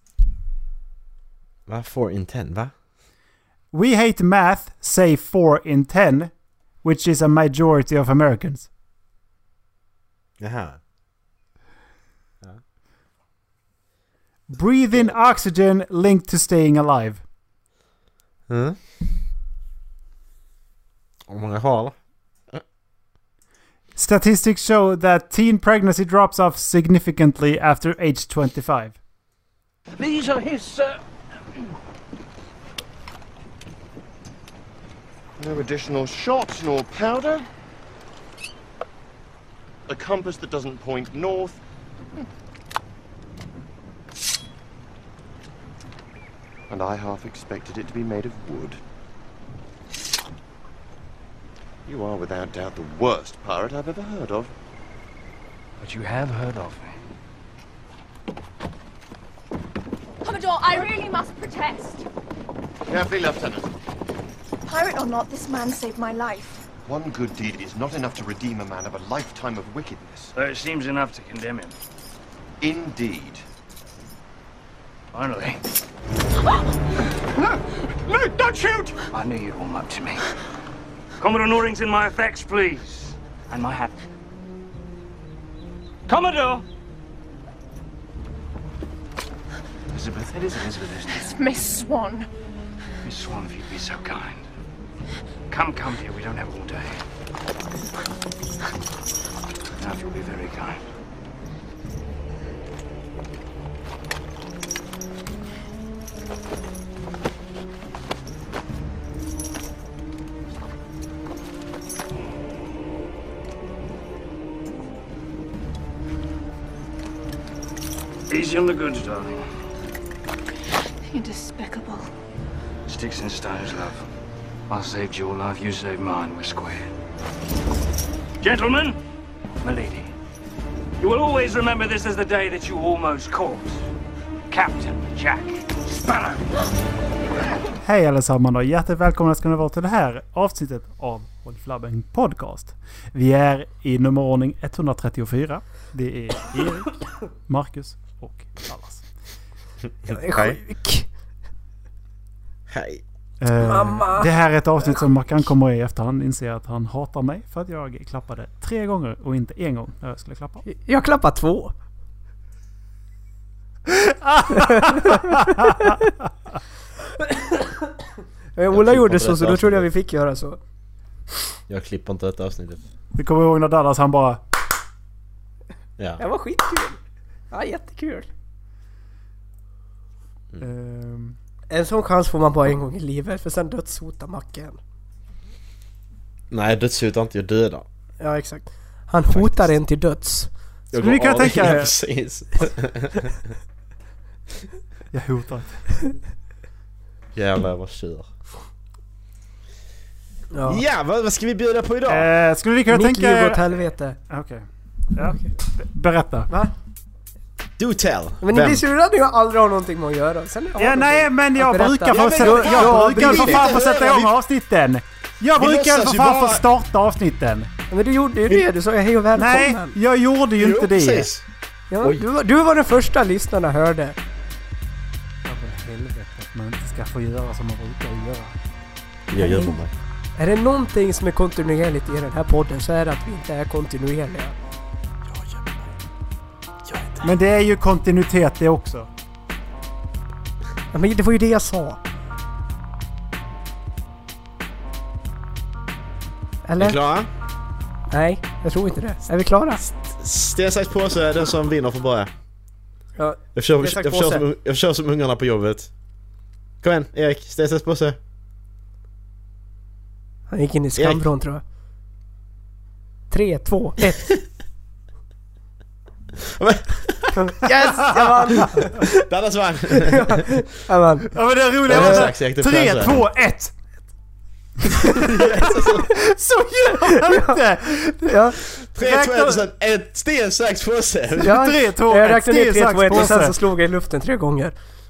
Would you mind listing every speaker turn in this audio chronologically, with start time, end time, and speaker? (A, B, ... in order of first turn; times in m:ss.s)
0:01.7-0:02.7 A
0:03.7-0:08.7 B
0:10.4-0:10.8 A
0:14.5-0:17.2 B
0:18.5-0:18.8 A
0:21.3-0:22.0 A
0:24.0-0:29.0 B
0:30.0-0:31.0 C
0:35.4-0:37.5 D
0:39.9-0:41.6 D
0:46.7-0:48.8 D
0:51.9-0:54.5 D
0:55.8-0:57.0 C
1:00.2-1:02.1 E
1:02.9-1:03.7 D
1:04.7-1:06.6 E
1:06.9-1:10.3 D
1:10.4-1:11.8 C
1:12.6-1:13.4 D
1:15.1-1:15.6 C
1:17.4-1:20.3 C
1:21.2-1:24.0 C
1:26.1-1:26.6 C
1:29.9-1:31.4 C
1:31.2-1:32.3 E
1:33.0-1:34.5 C
1:35.5-1:37.0 C
1:39.8-1:40.8 C
1:58.3-1:59.4 C
2:01.1-2:02.1 E
2:02.9-2:04.1 C
2:04.7-2:06.9 C
2:08.4-2:09.0 C
2:09.6-2:10.1 C
2:11.0-2:13.9 C
2:14.5-2:16.6 C
2:17.8-2:29.0 B
2:30.0-2:30.6 A
2:30.0-2:31.1 F
2:32.7-2:33.0 A
2:33.4-2:40.6 B
2:33.6-2:34.3 F
2:40.7-2:41.7 F
2:43.9-2:46.0 B
2:44.6-2:46.0 F
2:47.1-2:48.0 F
2:48.6-2:50.6 F
2:48.7-2:49.9 A
2:51.7-2:52.8 A
2:53.1-2:54.4 B
2:56.2-2:57.0 F
2:57.5-2:58.3 F
3:00.6-3:01.4 B
3:01.7-3:04.8 F
3:06.5-3:07.9 A
3:08.2-3:10.5 F
3:09.3-3:09.8 A
3:10.9-3:13.3 A
3:11.0-3:12.0 B
3:15.1-3:16.0 B
3:17.3-3:18.3 A
3:20.5-3:20.8 F
3:20.6-3:22.3 A
3:22.1-3:23.6 B
3:22.9-3:24.2 F
3:24.3-3:26.5 B
3:27.8-3:28.8 A
3:28.4-3:33.8 F
3:30.8-3:37.7 B
3:32.1-3:34.3 A
3:35.6-3:36.6 A
3:37.9-3:40.0 F
3:39.4-3:41.3 B
3:40.6-3:41.4 A
3:41.9-3:44.2 F
3:42.0-3:42.3 A
3:45.4-3:48.6 B
3:49.3-3:49.9 A
3:49.3-3:49.8 F
3:50.4-3:54.6 F
3:55.2-3:55.9 A
3:56.9-3:57.3 A
3:57.2-3:59.1 B
4:00.9-4:02.0 F
4:06.6-4:07.0 F
4:06.8-4:07.3 A
4:08.1-4:09.8 F
4:09.9-4:12.3 A
4:13.2-4:14.4 F
4:13.6-4:15.9 A
4:16.8-4:18.2 A
4:20.5-4:21.6 F
4:21.0-4:21.3 A
4:23.3-4:24.4 F
4:26.4-4:27.7 A
4:27.4-4:29.2 F
4:28.2-4:30.6 A
4:29.9-4:31.3 F
4:31.3-4:33.8 B
4:31.9-4:33.2 A
4:31.9-4:32.3 F
4:34.8-4:38.3 B
4:35.0-4:36.1 A
4:35.2-4:35.9 F
4:37.2-4:37.6 F
4:38.2-4:38.6 F
4:38.8-4:41.6 A
4:39.0-4:39.6 B
4:41.4-4:43.6 B
4:41.4-4:44.8 F